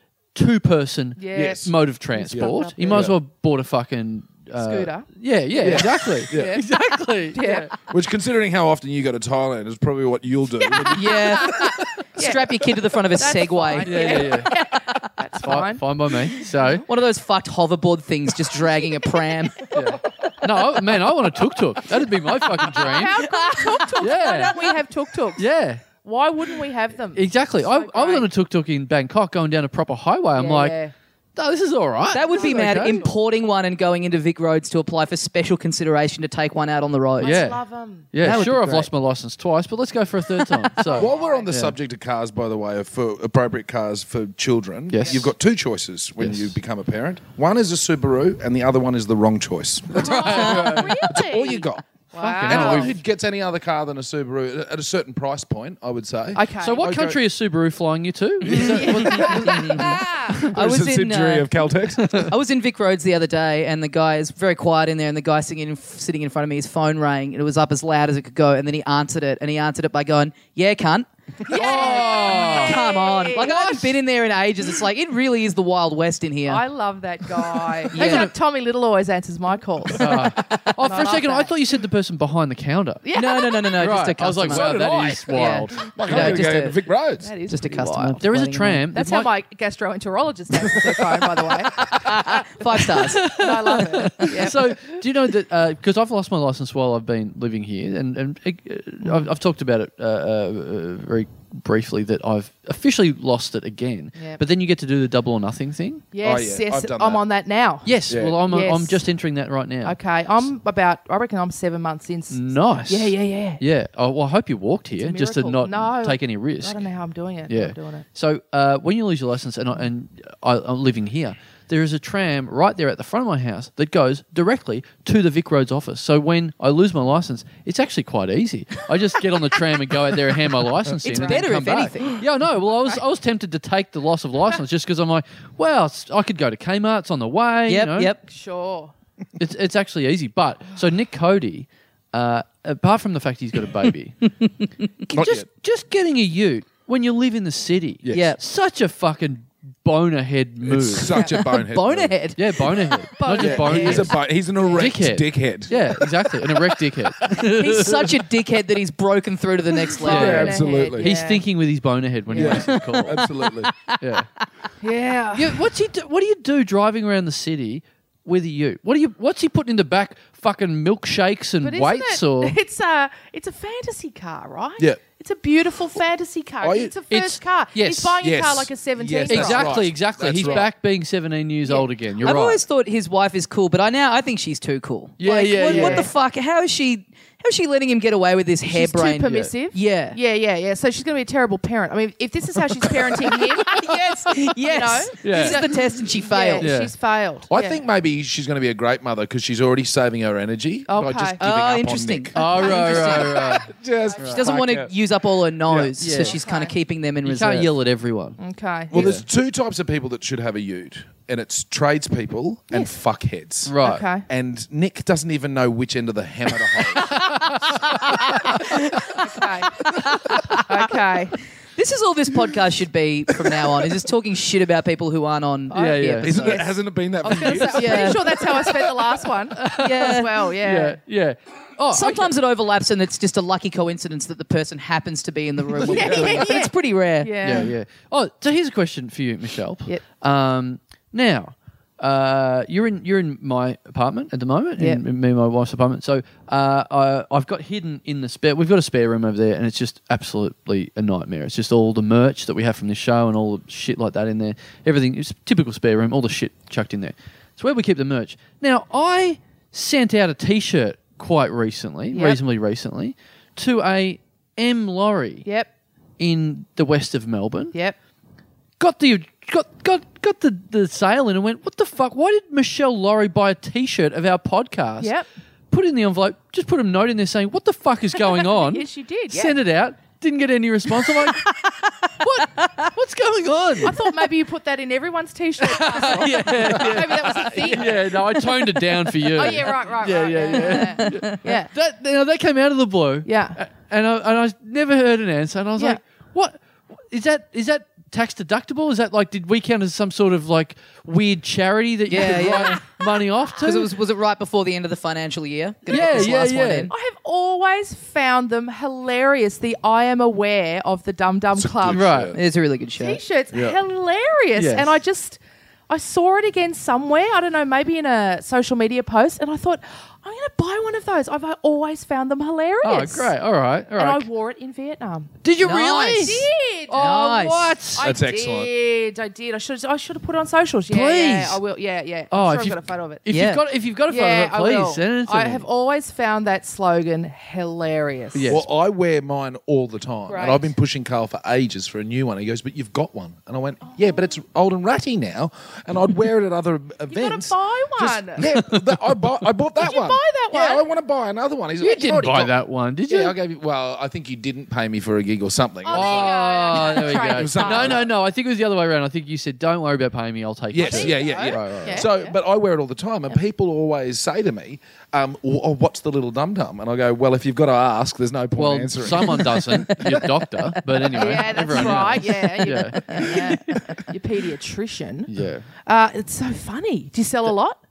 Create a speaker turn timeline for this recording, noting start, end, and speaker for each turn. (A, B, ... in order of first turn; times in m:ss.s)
0:00.4-0:07.7 A
0:01.2-0:03.1 B
0:01.3-0:01.7 C
0:02.3-0:03.2 C
0:04.6-0:05.1 B
0:05.6-0:06.6 C
0:05.6-0:06.6 B
0:07.3-0:07.7 B
0:07.9-0:11.8 C
0:10.6-0:16.8 B
0:10.9-0:11.6 D
0:12.2-0:14.2 D
0:13.8-0:14.6 A
0:15.4-0:16.8 A
0:16.9-0:19.6 D
0:19.7-0:23.2 A
0:22.6-0:28.3 B
0:23.3-0:23.7 D
0:24.0-0:24.6 A
0:25.4-0:25.8 A
0:27.1-0:30.8 A
0:30.4-0:30.9 B
0:31.4-0:33.0 A
0:32.1-0:37.5 D
0:32.2-0:33.1 B
0:37.2-0:38.4 B
0:37.2-0:41.8 A
0:38.2-0:38.9 D
0:40.8-0:41.5 B
0:41.0-0:51.8 C
0:44.9-0:45.3 A
0:46.2-0:46.6 A
0:49.9-0:52.9 B
0:50.0-0:51.1 A
0:52.2-0:53.0 A
0:52.4-0:57.2 C
0:56.3-0:56.8 B
0:56.6-1:00.0 A
0:58.4-1:02.3 C
0:58.5-1:00.5 B
0:59.4-1:16.6 D
1:02.0-1:02.3 A
1:11.5-1:14.0 B
1:11.5-1:12.8 A
1:16.5-1:21.5 B
1:17.9-1:18.3 D
1:20.0-1:23.0 A
1:23.0-1:23.7 B
1:23.1-1:26.8 D
1:23.8-1:26.4 A
1:24.5-1:27.3 C
1:27.2-1:28.2 B
1:27.5-1:28.8 D
1:28.2-1:29.3 A
1:28.9-1:32.4 B
1:30.8-1:31.2 C
1:32.0-1:33.3 D
1:33.0-1:46.0 A
1:33.1-1:34.8 B
1:39.0-1:39.3 B
1:46.1-1:47.9 B
1:46.2-1:47.2 C
1:47.8-1:50.0 A
1:48.1-1:48.4 C
1:48.5-1:49.0 B
1:49.8-1:53.6 B
1:52.3-1:56.8 A
1:55.0-1:58.0 B
1:57.5-2:18.1 A
2:11.0-2:12.2 D
2:11.1-2:11.5 B
2:17.7-2:18.2 D
2:18.2-2:18.9 B
2:19.4-2:24.3 A
2:25.1-2:31.3 A
2:25.1-2:25.5 C
2:28.0-2:28.3 C
2:28.1-2:28.4 D
2:30.6-2:32.2 C
2:31.4-2:32.4 D
2:32.4-2:38.2 A
2:33.2-2:34.8 B
2:33.4-2:36.8 C
2:35.7-2:36.0 B
2:37.4-2:40.6 D
2:40.0-2:41.4 B
2:40.0-2:43.2 A
2:40.0-2:41.1 C
2:42.3-2:42.6 B
2:42.4-2:43.7 C
2:42.6-2:44.4 D
2:44.0-2:44.3 A
2:44.8-2:45.6 B
2:45.4-2:52.6 A
2:51.6-3:00.7 B
2:56.6-2:56.9 C
2:57.1-2:58.2 A
2:58.2-3:00.7 C
2:59.3-3:02.6 A
3:01.6-3:01.9 B
3:02.2-3:10.2 D
3:05.2-3:06.1 A
3:05.3-3:06.1 B
3:08.7-3:17.8 B
3:13.6-3:16.7 D
3:15.2-3:15.6 A
3:16.6-3:16.9 A
3:17.5-3:24.9 C
3:20.9-3:21.4 B
3:21.4-3:23.4 D
3:22.4-3:24.4 A
3:24.2-3:27.7 D
3:25.7-3:26.0 C
3:26.0-3:26.4 A
3:26.1-3:26.7 B
3:27.2-3:28.4 A
3:28.4-3:29.1 B
3:28.9-3:37.2 C
3:28.9-3:29.2 A
3:33.7-3:34.1 A
3:33.8-3:34.3 B
3:37.0-3:38.2 A
3:38.1-3:38.6 C
3:38.5-3:40.0 B
3:40.7-3:41.4 B
3:41.8-3:46.6 D
3:45.7-3:46.6 A
3:45.7-3:46.7 B
3:46.2-3:48.8 C
3:47.3-3:51.0 B
3:47.3-3:48.6 A
3:47.5-3:48.2 D
3:49.6-3:52.3 A
3:49.7-3:50.3 D
3:51.9-3:57.4 D
3:55.8-3:57.7 B
3:55.9-3:56.4 C
3:57.4-4:25.5 A
4:22.1-4:22.4 B
4:26.2-4:27.7 A
4:28.8-4:35.1 A
4:35.0-4:35.2 B
4:35.7-4:41.5 A
4:38.3-4:39.6 B
4:42.2-4:44.0 A
4:42.6-4:42.9 D
4:43.8-4:51.7 B
4:45.6-5:03.9 A
4:51.0-4:51.4 D
4:53.3-4:53.6 B
5:02.1-5:03.0 D
5:03.6-5:06.9 D
5:05.9-5:06.9 A
5:05.9-5:06.2 B
5:06.9-5:12.1 B
5:11.6-5:12.4 C
5:11.9-5:12.4 A
5:12.3-5:13.2 D
5:13.0-5:23.3 B
5:13.5-5:13.8 C
5:14.6-5:14.9 A
5:22.8-5:24.3 A
5:24.0-5:25.3 B
5:25.4-5:28.1 A
5:25.6-5:26.4 D
5:26.2-5:27.2 B
5:27.0-5:27.8 D
5:27.9-5:33.2 B
5:28.0-5:28.7 C
5:30.9-5:31.6 A
5:32.3-5:35.7 A
5:33.3-5:33.6 D
5:34.1-5:38.6 B
5:38.3-5:38.6 A
5:38.5-5:52.6 C
5:40.3-5:40.7 B
5:47.1-5:48.4 B
5:48.5-5:48.8 A
5:49.8-5:50.8 B
5:51.8-5:53.4 A
5:53.1-5:58.1 C
5:55.8-5:58.1 B
5:55.9-6:02.1 A
6:00.7-6:10.3 C
6:00.8-6:02.4 B
6:08.6-6:13.8 A
6:09.9-6:10.1 D
6:11.1-6:15.3 B
6:11.1-6:12.1 C
6:15.3-6:15.7 A
6:15.8-6:17.8 B